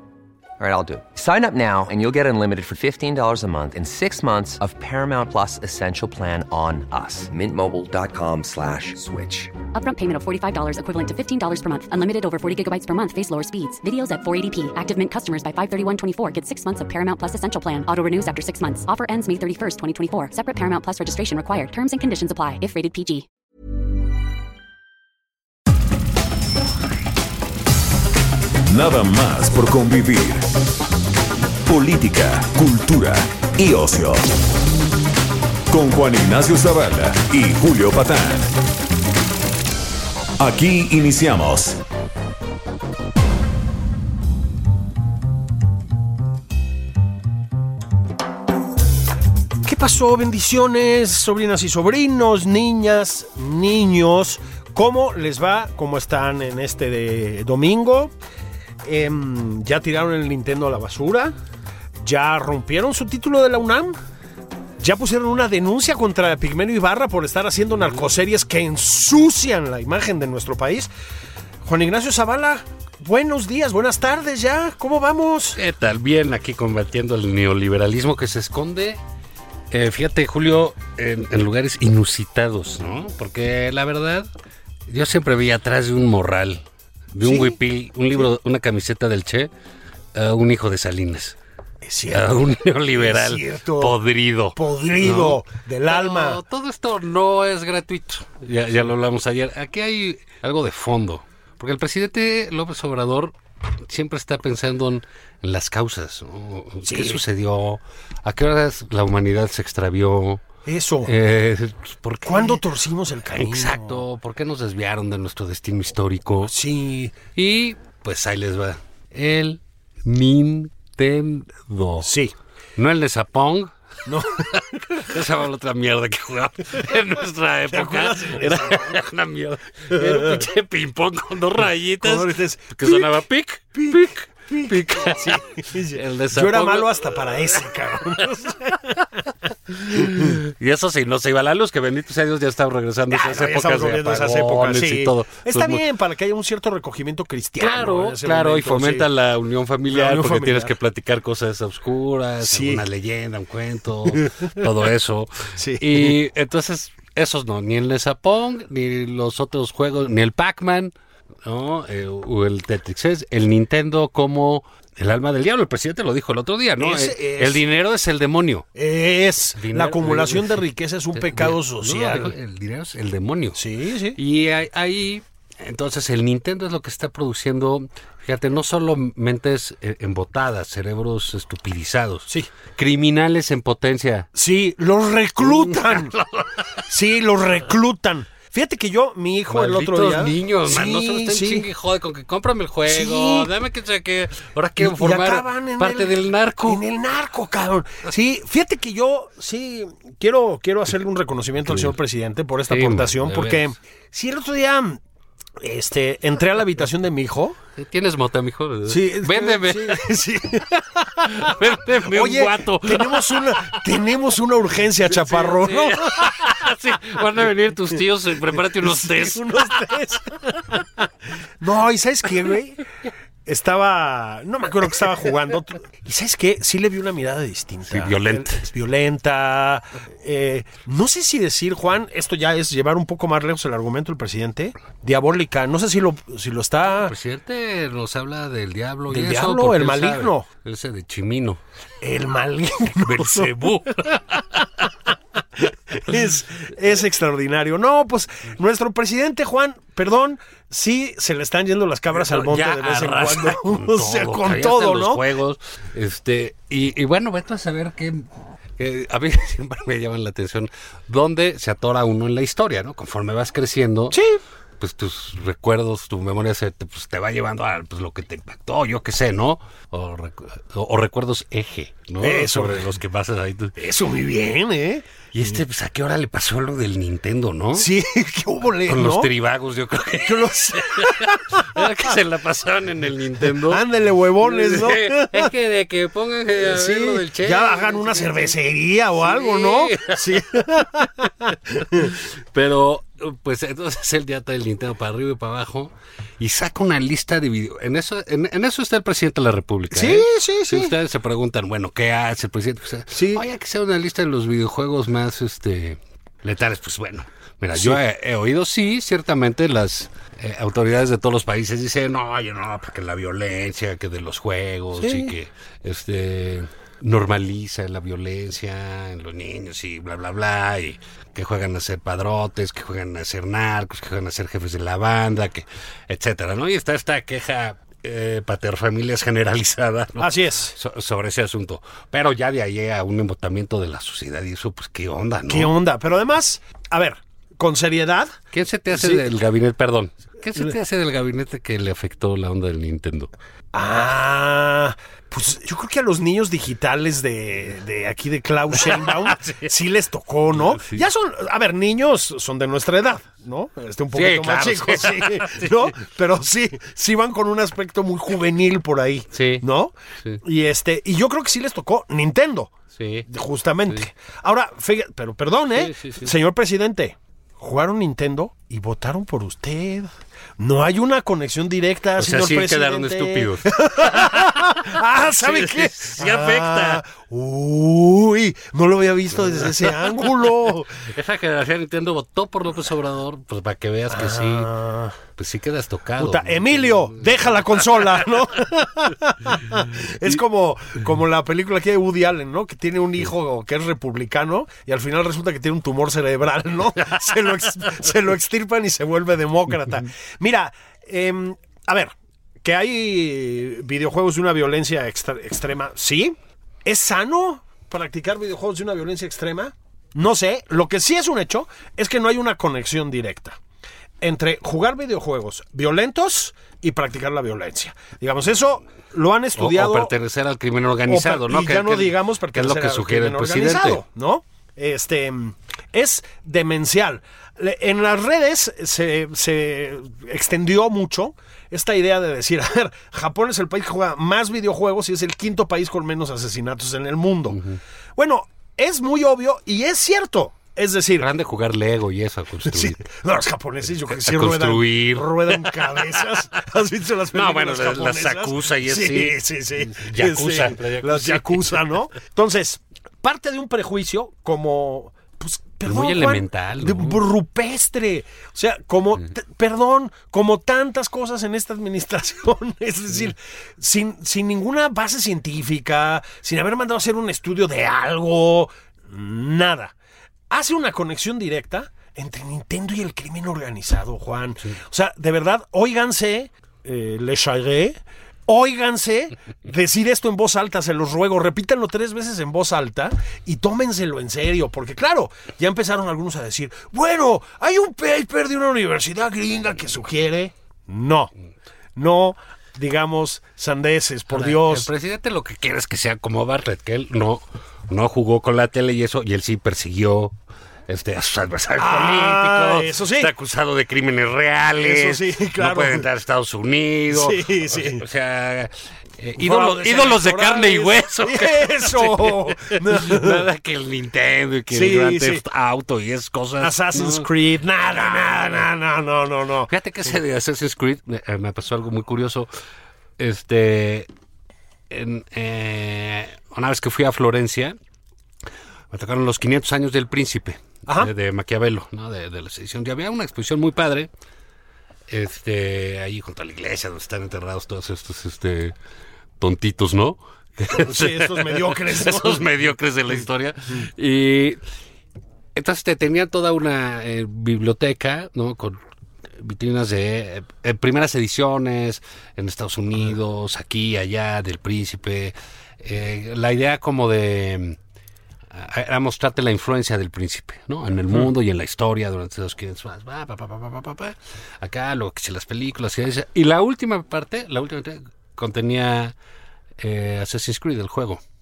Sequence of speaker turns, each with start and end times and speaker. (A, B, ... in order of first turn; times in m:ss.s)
0:00.6-0:09.5 A
0:09.7-0:23.2 B
0:28.7-0:30.5 C
0:31.6-0:34.3 C
0:35.7-0:38.6 C
0:40.4-0:41.8 C
0:49.6-0:58.1 D
0:58.8-1:01.3 D
1:02.0-1:04.0 D
1:04.8-1:10.9 D
1:11.6-1:15.6 D
1:15.6-1:19.0 E
1:19.7-1:24.3 E
1:24.9-1:29.5 E
1:27.2-1:27.6 D
1:30.1-1:31.4 E
1:31.8-1:34.0 D
1:32.1-1:50.4 E
1:34.5-1:36.4 D
1:46.8-1:47.2 D
1:50.6-1:51.1 D
1:51.0-1:52.6 E
1:52.2-1:54.0 D
1:53.3-1:56.5 E
1:56.4-1:57.2 D
1:57.3-2:02.1 E
2:02.0-2:02.3 D
2:02.8-2:18.3 E
2:04.0-2:05.2 D
2:07.7-2:09.1 D
2:09.9-2:10.4 D
2:12.0-2:13.2 D
2:13.7-2:19.3 D
2:19.7-2:25.8 E
2:19.8-2:20.4 D
2:23.1-2:29.1 D
2:27.6-2:48.7 E
2:29.9-2:30.7 D
2:32.4-2:32.8 D
2:34.1-2:34.6 D
2:35.6-2:36.2 D
2:46.8-2:47.6 D
2:48.7-2:52.3 D
2:49.6-2:53.6 E
2:53.6-2:54.2 D
2:54.2-3:04.3 E
3:04.3-3:06.1 D
3:05.4-3:06.8 E
3:06.8-3:11.7 D
3:09.5-3:16.8 E
3:12.9-3:13.5 D
3:14.8-3:25.0 D
3:21.6-3:22.0 E
3:22.7-3:23.7 E
3:25.6-3:27.6 D
3:27.8-3:30.1 E
3:28.9-3:36.6 D
3:31.2-3:33.8 E
3:35.1-3:39.8 E
3:38.5-3:41.0 D
3:41.6-3:42.8 D
3:43.4-3:57.1 D
3:47.9-3:48.6 E
3:57.0-4:01.6 E
3:59.1-4:00.4 D
4:02.0-4:04.9 D
4:03.0-4:04.6 E
4:05.6-4:15.2 D
4:12.1-4:24.2 E
4:24.1-4:24.4 D
4:24.8-4:33.7 E
4:32.2-4:32.9 D
4:33.8-4:35.1 D
4:35.3-4:37.9 E
4:37.7-4:39.3 D
4:38.9-4:43.8 E
4:40.1-4:42.0 D
4:43.5-4:45.5 D
4:44.4-4:48.6 E
4:46.6-4:52.2 D
4:49.2-4:50.8 E
4:51.9-5:35.8 E
4:59.9-5:00.9 D
5:03.1-5:03.4 D
5:15.0-5:15.3 D
5:30.2-5:30.8 D
5:35.5-5:38.3 D
5:38.5-5:43.3 E
5:38.9-5:39.2 D
5:43.7-6:02.7 D
5:48.7-5:49.7 E
5:50.5-5:51.1 E
5:54.1-5:56.0 E
5:59.3-5:59.6 E
6:02.9-6:03.3 E
6:03.3-6:21.0 D
6:05.7-6:06.3 E
6:12.2-6:17.0 E
6:19.5-6:24.7 E
6:24.1-6:25.2 D
6:25.3-6:28.2 E
6:26.2-6:42.1 D
6:42.6-6:53.6 D
6:54.2-7:00.1 D
6:59.6-7:04.0 E
7:01.1-7:17.6 D
7:17.5-7:17.8 E
7:18.2-7:21.3 D
7:21.2-7:23.0 E
7:22.6-7:49.9 D
7:24.1-7:26.1 E
7:27.3-7:31.8 E
7:35.8-7:37.2 E
7:50.5-8:11.3 D
8:12.0-8:14.9 D
8:14.3-8:20.4 E
8:20.9-8:37.3 E
8:21.8-8:23.3 D
8:24.8-8:26.0 D
8:27.1-8:28.0 D
8:29.4-8:33.5 D
8:34.7-8:35.4 D
8:36.6-8:39.7 D
8:38.1-8:38.6 E
8:39.7-8:42.5 E
8:43.2-8:44.1 E
8:44.9-8:47.8 E
8:48.9-8:54.1 E
8:50.8-8:51.1 D
8:55.1-8:58.8 E
8:59.4-9:04.6 E
9:00.7-9:02.7 D
9:05.5-9:08.8 E
9:09.4-9:17.8 E
9:18.5-9:29.1 E
9:29.8-9:31.2 E